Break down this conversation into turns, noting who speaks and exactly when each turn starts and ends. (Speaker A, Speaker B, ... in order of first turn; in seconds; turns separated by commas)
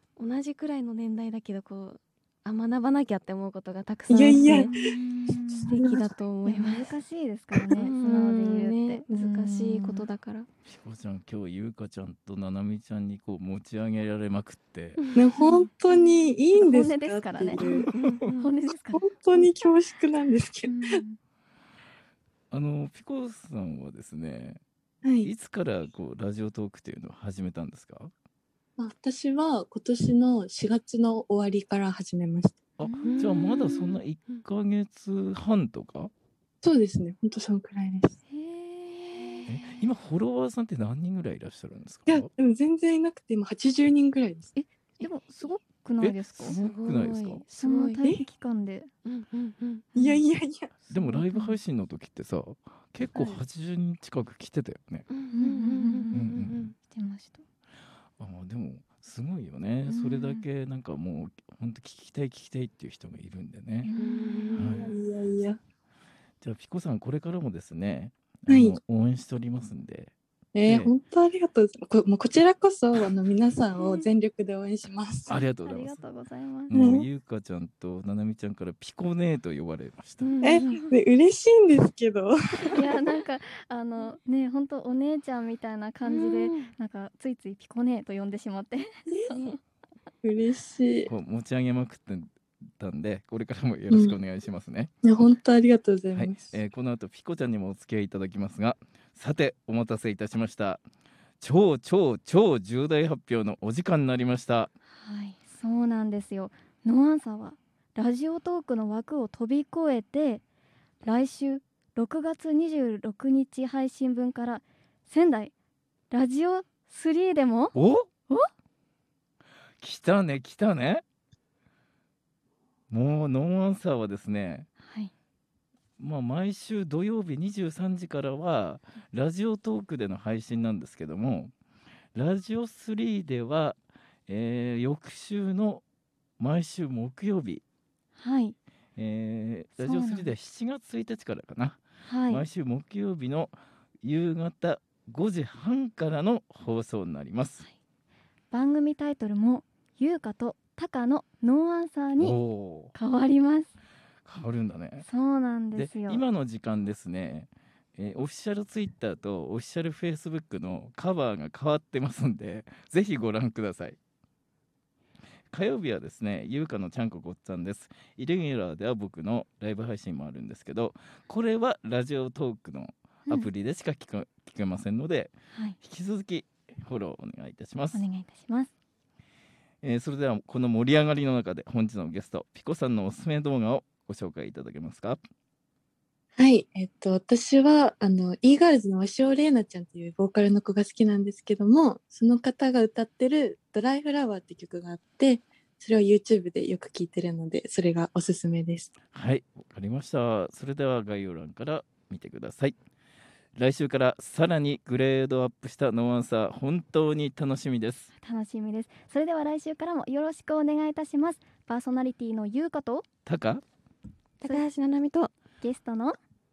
Speaker A: 0.2-4.7, Speaker B: 4.1-5.0, Speaker C: 4.7-5.8, Speaker B: 5.7-6.1, Speaker A: 5.7-6.9, Speaker C: 6.5-10.1, Speaker A: 7.8-10.5, Speaker D: 10.7-15.0, Speaker A: 15.0-15.3, Speaker B: 15.2-17.9, Speaker C: 16.6-17.6, Speaker D: 17.6-17.9, Speaker A: 17.9-18.5, Speaker C: 18.4-19.1, Speaker B: 18.9-21.0, Speaker C: 20.7-21.2, Speaker D: 22.5-24.6, Speaker B: 25.0-25.3, Speaker D: 25.2-28.1, Speaker B: 28.8-32.6, Speaker D: 32.8-36.1, Speaker C: 32.8-33.3, Speaker A: 33.0-34.4, Speaker B: 36.6-38.2, Speaker C: 38.3-39.5, Speaker A: 39.2-39.7, Speaker D: 39.5-42.3, Speaker B: 42.1-44.5, Speaker C: 44.5-46.6, Speaker D: 46.0-47.5, Speaker A: 46.5-48.0, Speaker C: 47.6-48.9, Speaker A: 49.0-49.9, Speaker B: 50.0-50.7, Speaker C: 50.0-50.2, Speaker C: 50.9-51.6, Speaker D: 50.9-55.1, Speaker A: 55.1-56.7, Speaker C: 55.3-56.3, Speaker D: 56.1-56.7, Speaker C: 56.9-57.4, Speaker D: 58.2-63.9, Speaker C: 59.9-60.5, Speaker C: 63.8-64.8, Speaker A: 64.0-64.8, Speaker D: 64.5-64.9, Speaker B: 64.8-65.6, Speaker D: 66.4-70.9, Speaker B: 68.5-68.8, Speaker B: 70.5-75.3, Speaker C: 73.8-74.1, Speaker D: 75.3-76.0, Speaker C: 75.6-76.8, Speaker D: 76.7-80.4, Speaker B: 76.7-77.1, Speaker A: 80.2-80.8, Speaker B: 80.4-82.9, Speaker C: 82.8-89.6, Speaker A: 86.0-86.7, Speaker B: 90.2-91.1, Speaker D: 91.1-94.9, Speaker B: 93.9-94.2, Speaker B: 95.0-96.5, Speaker D: 96.1-100.8, Speaker D: 101.4-104.7, Speaker C: 105.0-110.4, Speaker C: 111.0-115.5, Speaker C: 116.1-117.8, Speaker D: 117.8-118.1, Speaker D: 119.8-121.0, Speaker D: 122.9-124.7, Speaker C: 124.8-125.1, Speaker D: 126.0-131.5, Speaker D: 132.2-135.8, Speaker D: 136.4-137.6, Speaker C: 138.2-138.6, Speaker D: 139.0-147.7, Speaker C: 139.8-140.3, Speaker C: 142.1-142.4, Speaker C: 148.5-152.4, Speaker D: 152.2-152.9, Speaker C: 152.9-153.7, Speaker D: 154.2-155.1, Speaker C: 155.0-156.2, Speaker D: 155.7-164.0, Speaker D: 165.5-178.1, Speaker C: 175.5-175.8, Speaker C: 177.9-178.7, Speaker D: 179.8-185.2, Speaker B: 186.4-198.9, Speaker D: 199.1-202.8, Speaker D: 203.6-208.1, Speaker C: 208.2-213.1, Speaker D: 213.3-213.6, Speaker A: 214.4-215.3, Speaker C: 215.6-216.2